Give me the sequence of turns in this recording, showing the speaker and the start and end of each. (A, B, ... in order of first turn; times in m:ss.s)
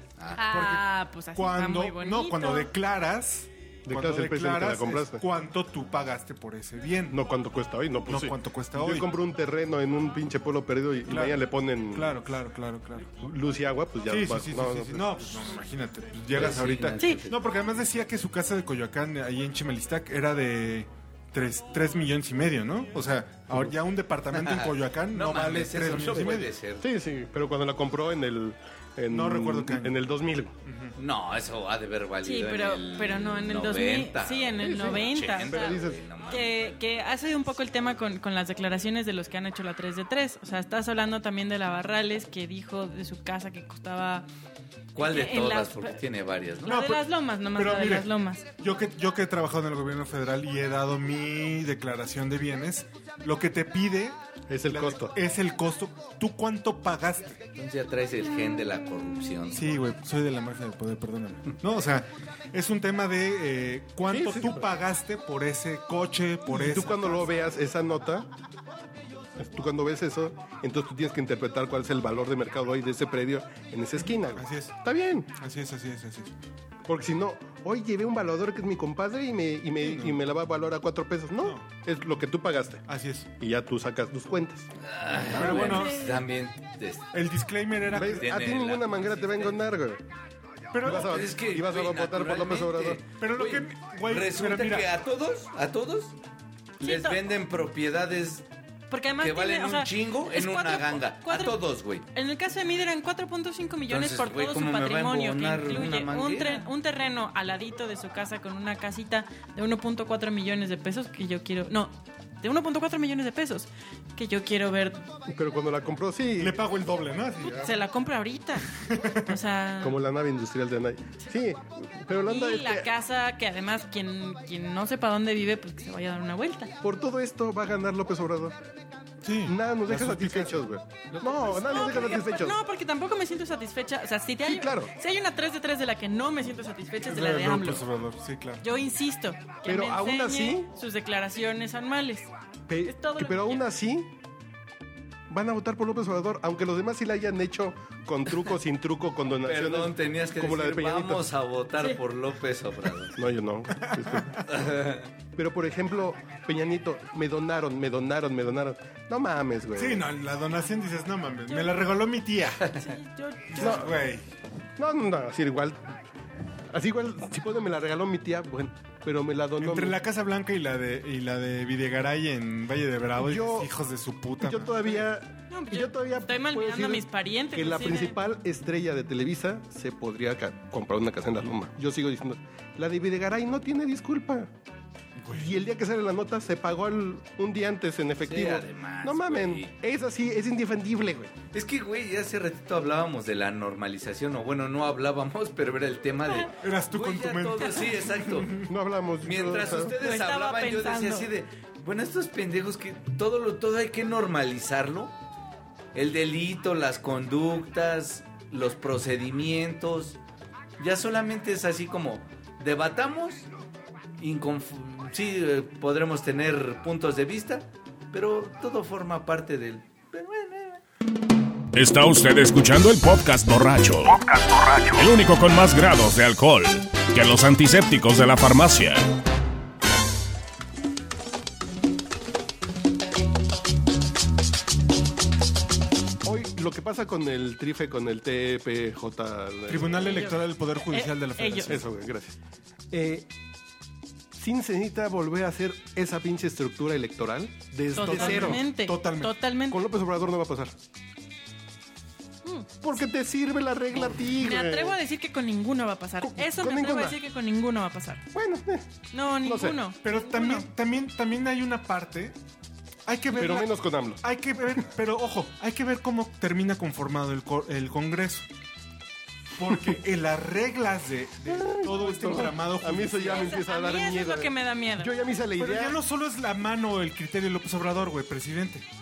0:00.2-0:00.5 A
0:00.4-0:02.7 B
0:00.5-0:07.2 C
0:03.9-0:05.2 D
0:07.1-0:12.2 D
0:08.1-0:09.1 C
0:11.1-0:13.1 C
0:13.2-0:15.1 D
0:14.1-0:26.5 C
0:16.3-0:17.4 A
0:24.3-0:26.9 A
0:26.8-0:30.6 D
0:29.1-0:30.0 C
0:30.6-0:30.9 C
0:31.0-0:36.8 A
0:32.2-0:44.3 B
0:34.6-0:36.0 D
0:45.0-0:46.8 A
0:45.0-0:46.0 B
0:46.6-0:48.4 B
0:46.7-0:54.2 C
0:54.5-0:55.2 D
0:54.7-0:57.4 C
0:57.6-0:59.6 A
0:59.5-1:07.2 C
1:04.1-1:04.7 D
1:06.5-1:08.3 D
1:09.4-1:15.3 D
1:14.0-1:14.7 C
1:15.4-1:16.3 C
1:16.9-1:22.8 D
1:19.8-1:20.2 C
1:22.9-1:23.3 C
1:23.4-1:24.7 D
1:24.8-1:27.1 A
1:25.3-1:26.1 C
1:25.4-1:26.2 B
1:27.1-1:28.4 C
1:27.9-1:30.0 D
1:28.0-1:29.6 A
1:30.7-1:31.2 C
1:30.8-1:33.0 D
1:30.9-1:36.2 A
1:33.2-1:34.9 C
1:36.8-1:38.4 A
1:36.8-1:37.2 B
1:38.9-1:41.6 B
1:39.2-1:42.1 A
1:42.1-1:55.1 B
1:43.9-1:46.7 A
1:55.3-1:56.6 D
1:56.4-1:57.7 C
1:57.4-2:00.0 B
1:58.8-1:59.4 C
1:59.8-2:02.9 D
2:02.3-2:06.7 B
2:06.8-2:08.6 D
2:09.2-2:10.6 C
2:09.5-2:12.6 D
2:11.2-2:11.9 C
2:11.6-2:17.8 B
2:14.4-2:14.9 D
2:17.0-2:18.6 C
2:18.6-2:22.3 B
2:19.6-2:20.7 D
2:22.7-2:24.1 D
2:22.8-2:23.7 B
2:25.3-2:31.3 D
2:29.5-2:33.2 A
2:33.2-2:34.4 D
2:33.9-2:34.4 C
2:34.5-2:35.0 A
2:35.3-2:40.0 D
2:39.8-2:42.8 C
2:41.5-2:41.8 B
2:42.8-2:43.9 B
2:43.5-2:44.3 C
2:43.6-2:43.9 D
2:44.8-2:46.0 D
2:46.7-2:50.0 D
2:49.6-2:55.0 C
2:53.2-2:53.7 D
2:54.4-3:04.5 D
2:55.5-2:58.2 B
3:05.3-3:11.4 D
3:08.2-3:09.7 A
3:11.5-3:18.5 A
3:16.6-3:18.7 C
3:18.6-3:20.0 D
3:19.2-3:25.1 A
3:19.9-3:21.3 B
3:25.9-3:30.2 A
3:30.8-3:33.5 A
3:34.2-3:40.8 A
3:41.7-3:49.1 E
3:56.2-4:00.3 D
3:59.7-4:01.8 C
4:00.0-4:01.7 B
4:01.6-4:02.4 D
4:02.9-4:03.3 D
4:04.3-4:08.6 D
4:08.0-4:09.8 B
4:08.0-4:09.4 C
4:09.7-4:10.7 D
4:12.8-4:15.0 D
4:14.4-4:18.2 B
4:16.2-4:17.2 D
4:18.3-4:18.9 D
4:19.1-4:20.7 B
4:19.4-4:19.8 D
4:20.0-4:22.4 C
4:23.1-4:23.7 C
4:23.3-4:24.2 D
4:24.2-4:28.5 C
4:29.6-4:33.4 C
4:31.5-4:36.0 D
4:33.3-4:35.1 B
4:35.6-4:38.8 C